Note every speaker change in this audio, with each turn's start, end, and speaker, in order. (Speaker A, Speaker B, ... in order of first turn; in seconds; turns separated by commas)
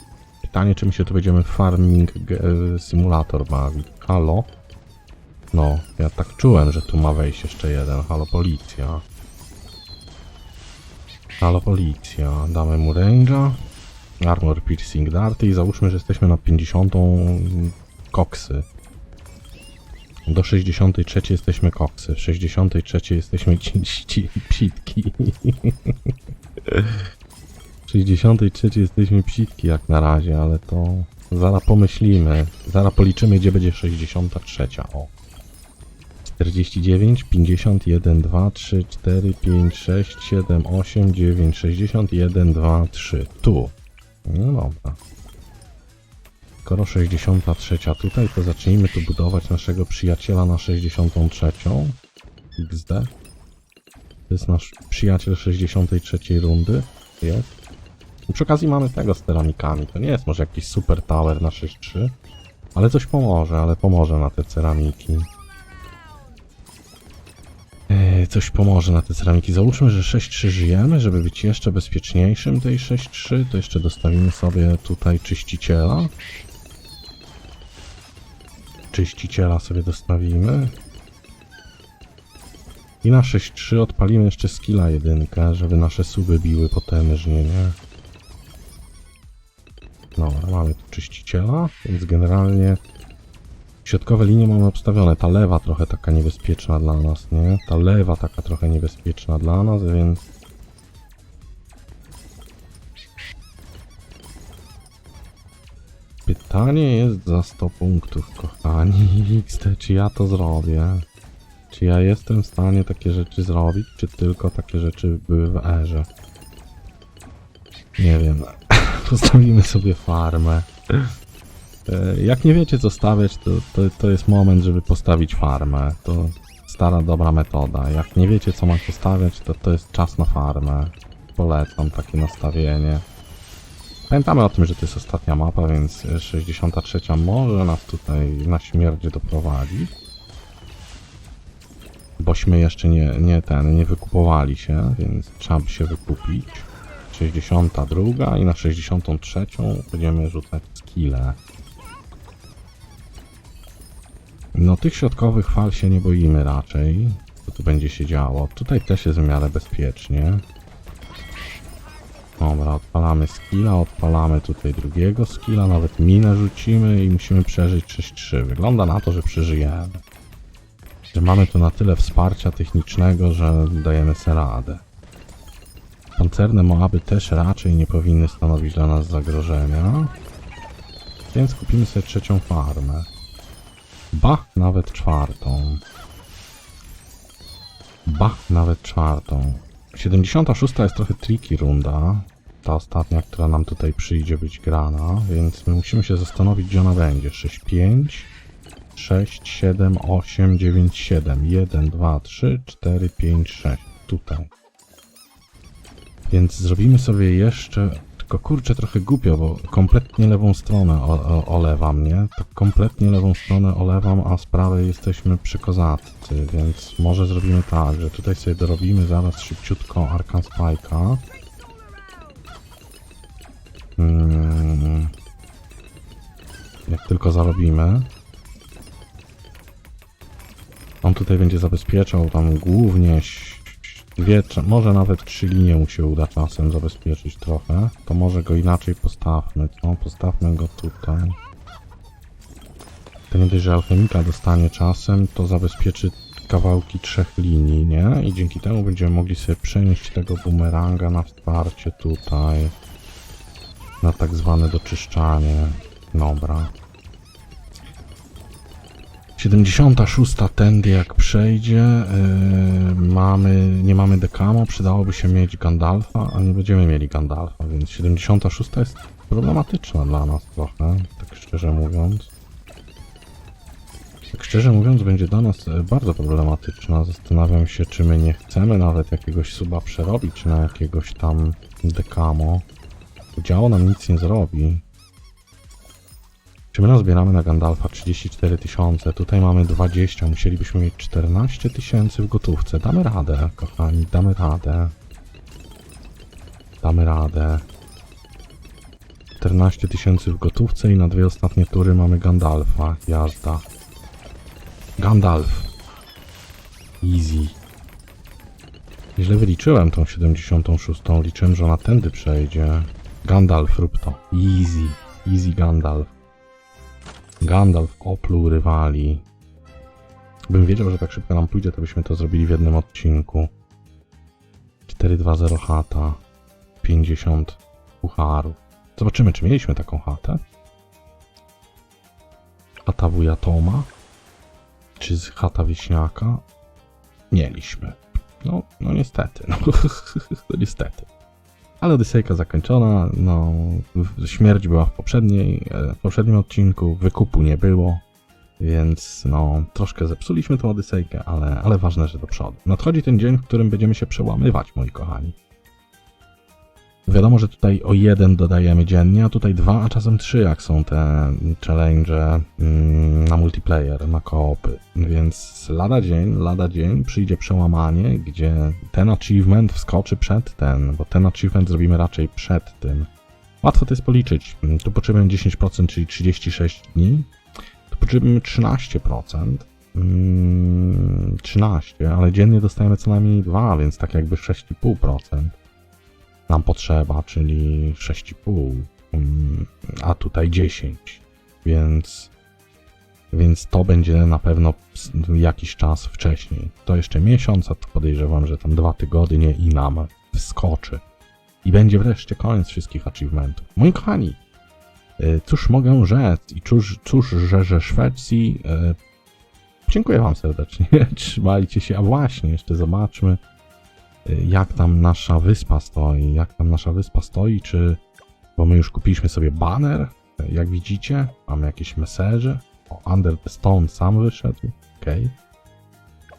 Speaker A: 0.4-4.5, Speaker A: 5.5-9.0, Speaker A: 11.4-13.6, Speaker A: 14.2-18.6, Speaker A: 20.3-26.1, Speaker A: 26.6-27.0, Speaker A: 27.9-35.1, Speaker A: 36.2-43.7, Speaker A: 44.3-45.0, Speaker A: 46.6-52.0, Speaker A: 52.6-53.1, Speaker A: 54.3-57.6, Speaker A: 58.3-62.1, Speaker A: 62.8-65.3, Speaker A: 67.9-76.1, Speaker A: 78.9-80.8, Speaker A: 83.0-87.8, Speaker A: 90.2-92.8, Speaker A: 93.8-100.3, Speaker A: 106.3-111.1, Speaker A: 111.7-116.1, Speaker A: 118.0-121.1, Speaker A: 121.9-133.1, Speaker A: 134.1-139.9, Speaker A: 142.2-151.4, Speaker A: 154.6-160.4, Speaker A: 162.4-170.0, Speaker A: 171.1-174.8, Speaker A: 176.2-180.1, Speaker A: 181.3-183.1, Speaker A: 184.1-185.8, Speaker A: 188.1-198.3, Speaker A: 198.9-204.5, Speaker A: 206.3-221.2, Speaker A: 224.0-225.1, Speaker A: 226.9-228.1, Speaker A: 231.0-241.4, Speaker A: 243.3-252.7, Speaker A: 254.0-256.7, Speaker A: 259.4-272.3, Speaker A: 274.3-282.6, Speaker A: 283.4-284.8, Speaker A: 286.7-294.9, Speaker A: 296.8-297.6, Speaker A: 299.4-303.6, Speaker A: 305.0-305.7, Speaker A: 307.0-307.6, Speaker A: 309.2-316.1, Speaker A: 317.4-319.2, Speaker A: 320.5-323.5, Speaker A: 324.9-326.2, Speaker A: 326.8-330.4, Speaker A: 332.9-333.9, Speaker A: 335.0-336.4, Speaker A: 337.3-341.1, Speaker A: 341.8-348.0, Speaker A: 348.6-355.4, Speaker A: 357.1-373.1, Speaker A: 373.6-377.3, Speaker A: 377.9-385.6, Speaker A: 386.5-392.3, Speaker A: 393.3-401.0, Speaker A: 401.6-404.4, Speaker A: 405.2-409.0, Speaker A: 409.9-413.4, Speaker A: 414.2-418.0, Speaker A: 418.6-425.4